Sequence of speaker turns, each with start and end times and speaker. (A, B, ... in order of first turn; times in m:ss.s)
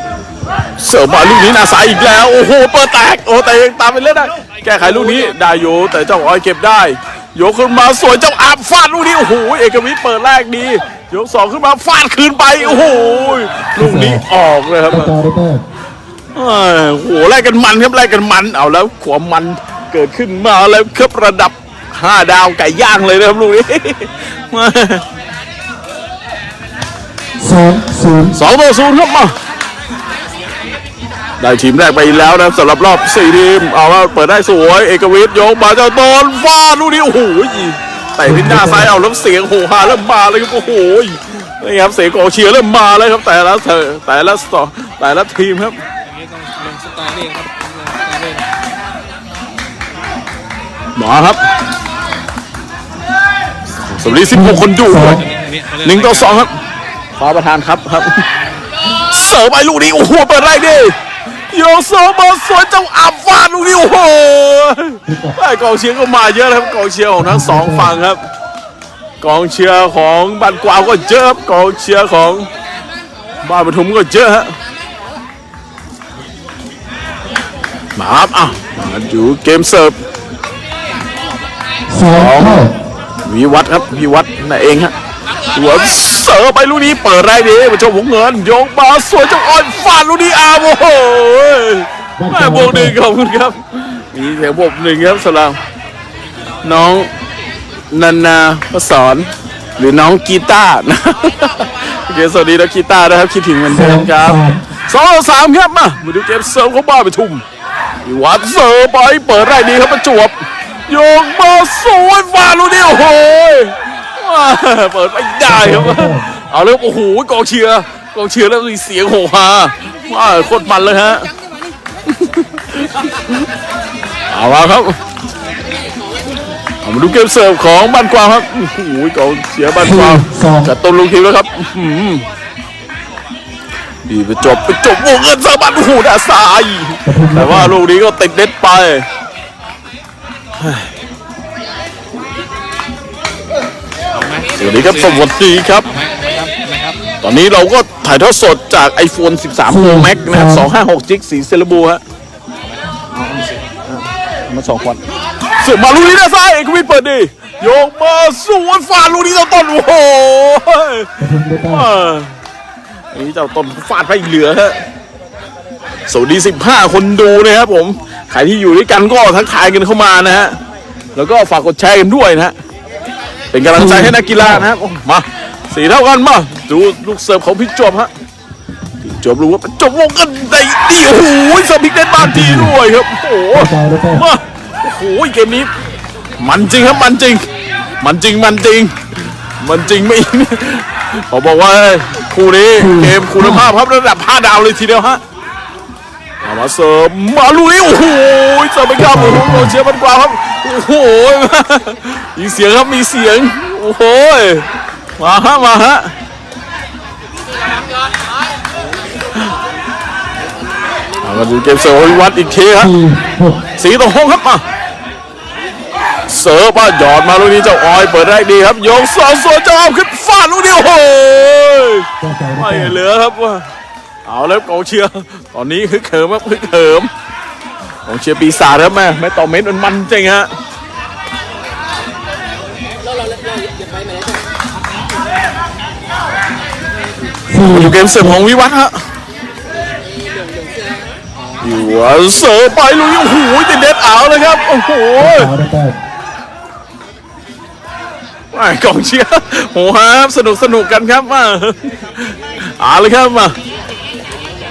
0:00.8-0:15.1 A
0:13.8-0:14.2 B
0:14.9-0:15.6 B
0:16.3-0:25.0 A
0:27.4-0:28.4 B
0:28.3-0:29.3 A
0:31.4-0:45.8 A
0:38.2-0:38.9 B
0:46.0-0:48.5 C
0:51.0-0:51.4 A
0:53.9-0:55.2 A
0:54.3-0:55.2 B
0:54.9-0:56.5 C
0:55.8-0:56.5 A
0:57.2-0:58.2 A
0:59.1-1:01.0 A
1:01.5-1:08.2 A
1:05.0-1:05.4 B
1:07.2-1:07.9 B
1:09.2-1:12.5 A
1:13.4-1:14.5 A
1:18.0-1:19.9 A
1:21.9-1:22.7 B
1:22.1-1:22.6 A
1:23.3-1:24.9 A
1:25.5-1:35.6 A
1:32.2-1:33.0 B
1:36.6-1:37.1 A
1:37.9-1:47.4 A
1:43.7-1:44.6 B
1:48.0-1:50.4 A
1:50.9-2:01.3 A
1:55.4-1:56.3 B
2:02.1-2:03.4 A
2:04.3-2:05.0 A
2:06.8-2:12.2 A
2:09.8-2:10.7 B
2:14.1-2:19.0 A
2:17.0-2:17.8 B
2:20.6-2:20.9 A
2:24.1-2:25.3 C
2:24.6-2:25.8 A
2:25.8-2:27.0 C
2:27.2-2:32.0 A
2:29.7-2:30.7 B
2:33.1-2:35.0 A
2:35.6-2:41.1 A
2:41.2-2:41.9 B
2:41.6-2:42.3 A
2:43.1-2:44.8 A
2:46.1-2:50.6 A
2:51.2-2:52.5 A
2:53.5-2:58.1 A
2:53.7-2:54.6 B
2:59.0-3:05.7 A
3:02.2-3:02.7 B
3:03.5-3:04.2 B
3:06.4-3:07.4 A
3:08.0-3:09.0 A
3:09.6-3:15.2 A
3:12.8-3:13.7 B
3:16.4-3:24.6 A
3:19.0-3:19.8 B
3:25.2-3:26.1 A
3:31.2-3:32.9 A
3:32.8-3:33.6 B
3:33.8-3:34.6 A
3:36.3-3:42.0 A
3:42.2-3:43.0 B
3:42.6-3:43.6 A
3:44.2-3:47.1 A
3:48.1-3:50.5 A
3:57.5-3:58.4 B
3:57.7-3:59.0 A
4:01.6-4:05.5 A
4:05.2-4:06.0 B
4:08.5-4:13.6 A